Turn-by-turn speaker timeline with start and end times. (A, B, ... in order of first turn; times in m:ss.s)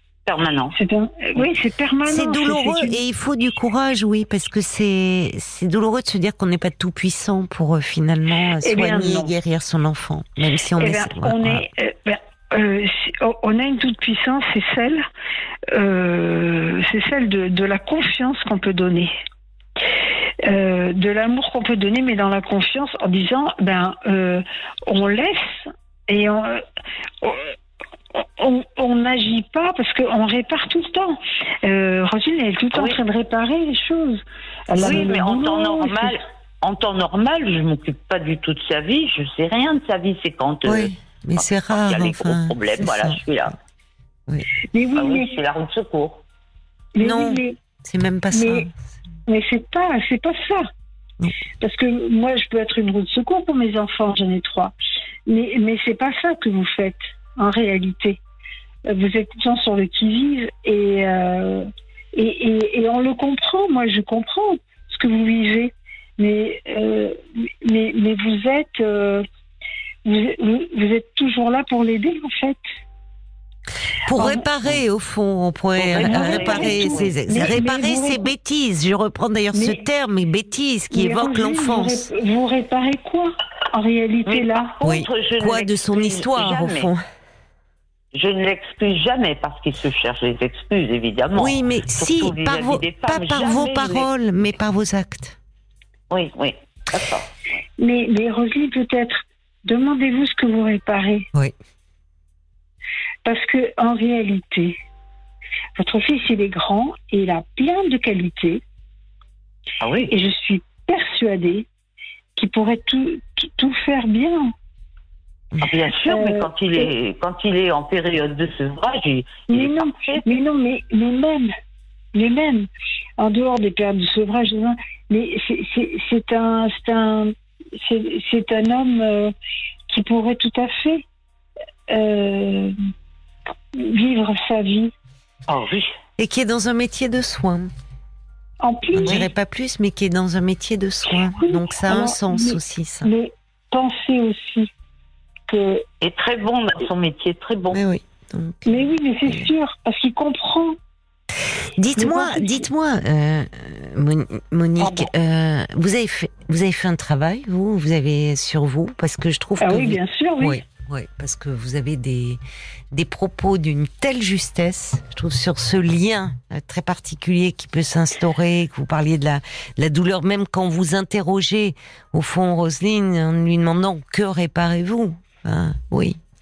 0:00.2-0:00.8 A
0:00.7-0:03.0 B
0:02.0-0:11.6 C
0:08.6-0:09.3 B
0:10.8-0:15.0 B
0:15.7-0:19.1 B
0:20.4-0:26.6 B
0:27.2-0:27.6 B
0:28.1-0:36.2 B
0:32.7-0:33.0 A
0:34.8-0:43.6 A
0:40.6-0:43.2 C
0:44.7-0:45.4 B
0:45.0-0:46.2 A
0:46.9-0:47.6 B
0:47.0-0:48.7 C
0:48.3-0:48.7 B
0:49.3-0:50.7 B
0:51.6-0:54.7 B
0:55.3-0:58.2 B
0:58.8-1:09.2 B
1:10.0-1:12.6 B
1:14.0-1:22.1 C
1:14.1-1:14.4 B
1:15.8-1:17.1 A
1:16.0-1:18.2 B
1:19.5-1:19.8 B
1:20.9-1:24.7 B
1:24.2-1:26.9 A
1:24.8-1:27.0 C
1:28.1-1:34.1 A
1:31.4-1:35.4 C
1:36.1-1:37.3 A
1:37.8-1:41.3 B
1:43.2-1:44.8 B
1:45.8-1:48.6 B
1:49.8-1:50.1 A
1:50.1-1:51.7 B
1:52.4-1:54.5 B
1:55.6-2:00.2 A
1:56.0-1:56.9 B
1:59.5-2:01.5 B
2:02.1-2:09.3 B
2:09.9-2:11.0 B
2:11.9-2:12.8 B
2:13.7-2:14.9 B
2:15.5-2:15.9 A
2:16.2-2:17.7 C
2:18.6-2:19.2 B
2:18.9-2:23.1 C
2:21.3-2:24.7 B
2:25.5-2:25.8 B
2:26.0-2:27.8 A
2:27.7-2:29.5 C
2:28.6-2:30.8 B
2:31.8-2:42.4 C
2:32.0-2:32.7 B
2:39.6-2:40.6 B
2:42.9-2:56.2 C